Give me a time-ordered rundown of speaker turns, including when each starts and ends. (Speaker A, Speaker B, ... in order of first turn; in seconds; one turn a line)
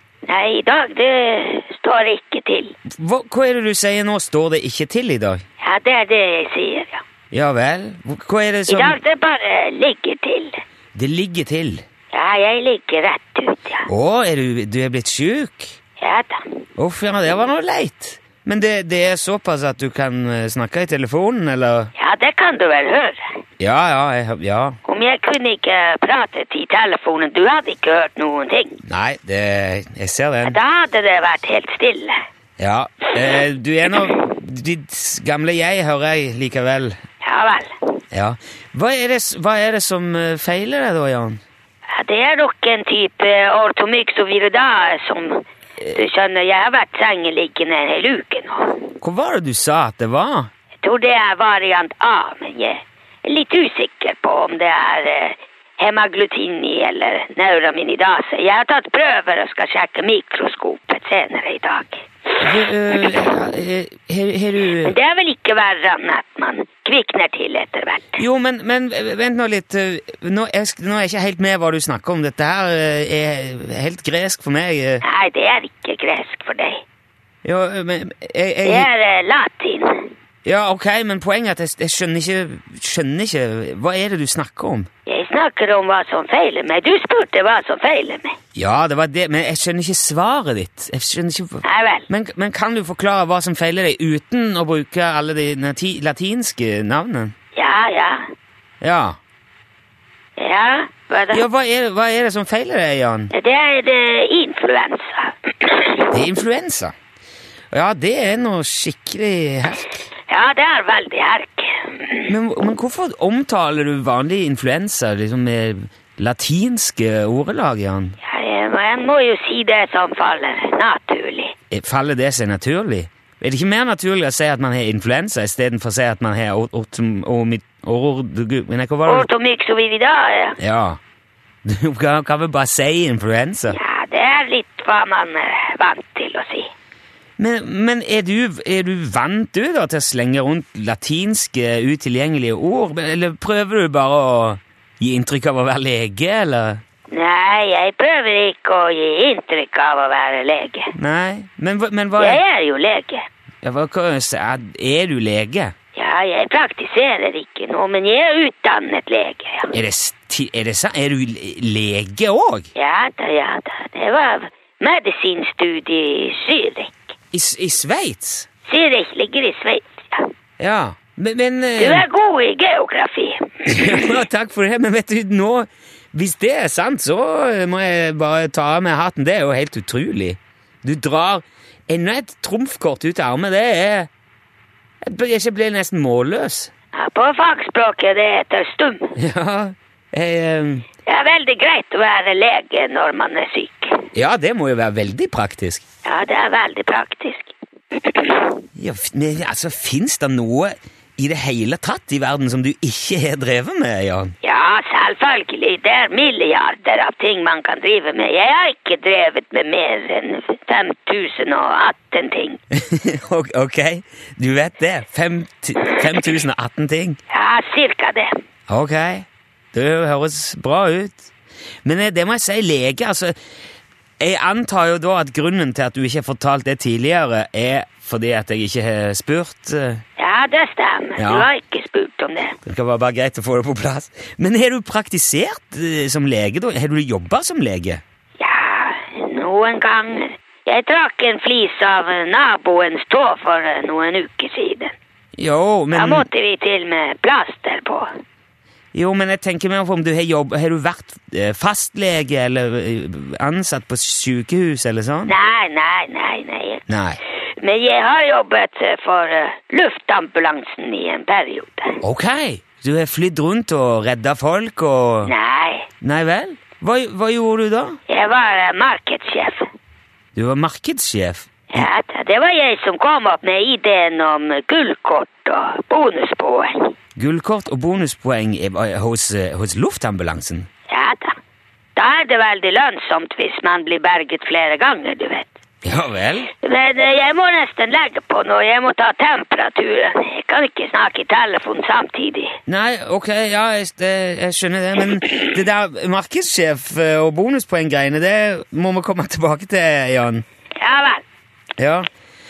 Speaker A: 0.2-2.7
Speaker B: 2.9-5.4
Speaker A: 5.6-7.0
Speaker B: 7.3-9.0
Speaker A: 8.7-10.6
Speaker B: 10.9-11.8
Speaker A: 12.1-13.9
Speaker B: 13.8-15.7
Speaker A: 16.0-16.4
Speaker B: 16.8-21.9
Speaker A: 22.0-23.2
Speaker B: 23.6-24.8
Speaker A: 24.8-28.8
Speaker B: 28.9-30.6
Speaker A: 30.4-32.2
Speaker B: 32.6-37.0
Speaker A: 37.2-37.8
Speaker B: 38.1-41.4
Speaker A: 41.9-48.8
Speaker B: 49.0-50.5
Speaker A: 50.8-62.5
Speaker B: 62.4-64.9
Speaker A: 64.8-68.2
Speaker B: 68.2-75.0
Speaker A: 75.0-76.8
Speaker B: 77.4-78.9
Speaker A: 78.6-80.1
Speaker B: 80.4-84.9
Speaker A: 85.1-88.3
Speaker B: 88.5-97.3
Speaker A: 91.6-92.1
Speaker A: 97.5-98.2
Speaker B: 98.8-99.2
Speaker A: 100.4-101.4
Speaker B: 101.3-103.3
Speaker A: 103.3-106.1
Speaker B: 106.1-106.9
Speaker B: 107.7-110.0
Speaker A: 110.3-112.3
Speaker B: 112.3-118.2
Speaker A: 118.2-121.5
Speaker B: 121.7-129.3
Speaker A: 129.1-130.6
Speaker B: 130.6-131.0
Speaker B: 131.6-133.8
Speaker A: 133.7-136.7
Speaker B: 137.4-146.8
Speaker A: 147.1-150.9
Speaker B: 150.9-152.4
Speaker A: 152.2-153.2
Speaker B: 153.6-155.7
Speaker A: 155.9-159.7
Speaker B: 159.7-162.7
Speaker A: 162.7-167.1
Speaker B: 167.3-168.5
Speaker A: 168.7-170.3
Speaker B: 170.6-172.0
Speaker A: 171.8-174.2
Speaker B: 173.7-184.1
Speaker B: 185.0-186.7
Speaker A: 186.9-189.1
Speaker B: 189.2-190.9
Speaker A: 191.0-194.1
Speaker B: 194.1-195.8
Speaker A: 196.0-198.6
Speaker B: 198.7-204.3
Speaker A: 204.4-212.6
Speaker B: 212.7-217.2
Speaker A: 217.3-218.3
Speaker B: 218.7-221.3
Speaker B: 221.8-223.3
Speaker B: 224.2-230.0
Speaker A: 230.2-232.6
Speaker B: 231.2-231.5
Speaker B: 232.6-238.0
Speaker A: 238.4-244.9
Speaker B: 245.4-246.3
Speaker A: 245.9-248.1
Speaker B: 248.9-255.3
Speaker A: 255.2-256.8
Speaker B: 256.9-257.2
Speaker A: 257.6-262.0
Speaker B: 262.0-265.3
Speaker A: 265.2-265.9
Speaker B: 266.0-268.0
Speaker A: 268.1-269.7
Speaker B: 270.3-271.9
Speaker A: 271.7-276.9
Speaker B: 277.1-280.7
Speaker A: 280.9-281.3
Speaker A: 281.9-285.5
Speaker B: 285.8-286.5
Speaker A: 286.6-292.6
Speaker B: 292.6-300.4
Speaker A: 300.8-301.2
Speaker B: 301.8-302.1